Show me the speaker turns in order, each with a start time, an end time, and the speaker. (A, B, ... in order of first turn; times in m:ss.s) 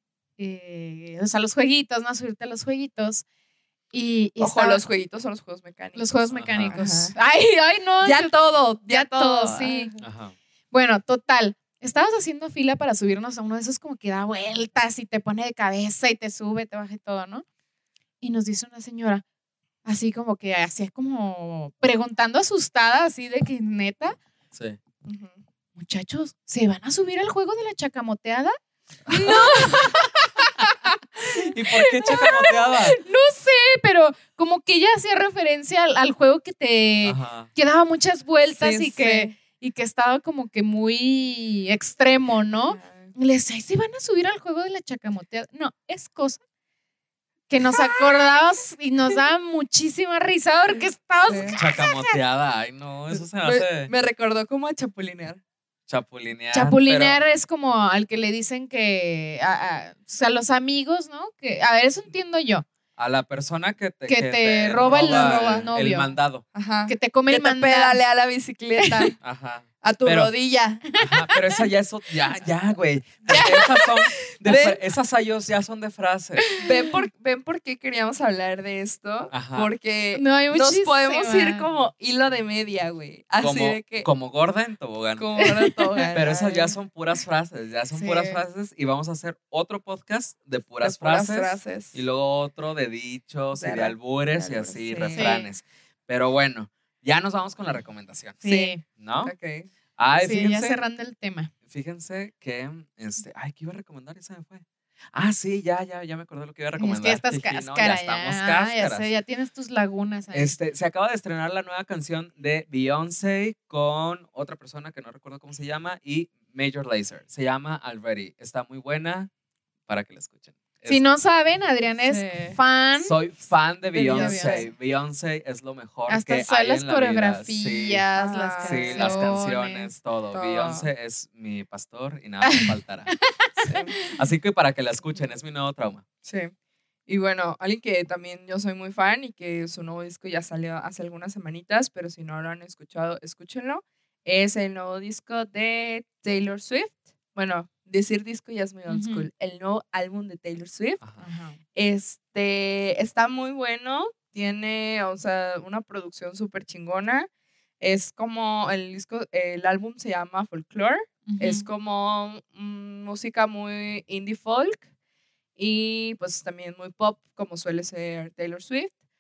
0:00.4-0:03.2 A
0:03.9-0:04.8 A
0:04.4-0:07.2 B
0:06.0-0:08.4 A
0:06.3-0:06.8 C
0:08.0-0:10.1 B
0:08.9-0:09.9 A
0:10.0-0:10.4 C
0:10.7-0:17.4 A
0:18.2-0:19.2 A
0:19.8-0:24.2 A
0:24.5-0:24.8 C
0:25.0-0:25.4 B
0:25.8-0:28.6 A
0:29.1-0:29.8 B
0:29.2-0:30.7 A
0:31.4-0:33.0 C
0:31.9-0:46.4 A
0:37.0-0:37.5 C
0:38.5-0:39.4 B
0:42.7-0:43.1 B
0:47.5-0:52.2 A
0:50.7-0:51.6 B
0:51.6-0:53.9 C
0:53.1-0:55.4 B
0:55.9-0:57.2 C
0:56.5-1:02.7 A
1:03.0-1:06.4 C
1:04.1-1:06.1 A
1:04.8-1:05.7 B
1:06.5-1:09.1 B
1:06.9-1:08.0 A
1:08.8-1:09.1 A
1:09.2-1:10.3 C
1:09.8-1:10.8 B
1:10.9-1:11.6 A
1:11.0-1:16.5 C
1:13.3-1:13.6 A
1:13.3-1:13.6 B
1:14.4-1:14.8 B
1:16.6-1:24.1 B
1:16.6-1:16.9 A
1:19.3-1:19.7 C
1:20.1-1:21.7 A
1:23.4-1:25.4 C
1:25.2-1:26.8 B
1:25.4-1:26.1 A
1:26.1-1:39.3 C
1:28.0-1:28.4 A
1:30.8-1:32.0 B
1:33.5-1:35.3 B
1:35.1-1:35.5 A
1:38.4-1:38.8 A
1:38.4-1:39.7 B
1:40.0-1:40.8 C
1:40.2-1:41.5 A
1:41.6-1:49.1 C
1:46.8-1:50.6 A
1:50.3-1:59.3 C
1:59.9-2:01.0 C
2:00.8-2:03.2 A
2:02.0-2:02.6 B
2:03.0-2:08.0 C
2:03.9-2:04.7 A
2:04.0-2:04.7 B
2:06.1-2:09.9 A
2:08.2-2:09.4 B
2:08.6-2:13.1 C
2:10.3-2:10.9 B
2:12.4-2:14.2 A
2:13.6-2:14.0 B
2:14.1-2:16.0 C
2:16.2-2:16.5 B
2:17.1-2:31.0 B
2:28.9-2:29.3 A
2:31.2-2:31.6 A
2:31.8-2:37.3 B
2:37.8-2:44.8 B
2:41.3-2:41.7 A
2:45.6-2:48.9 B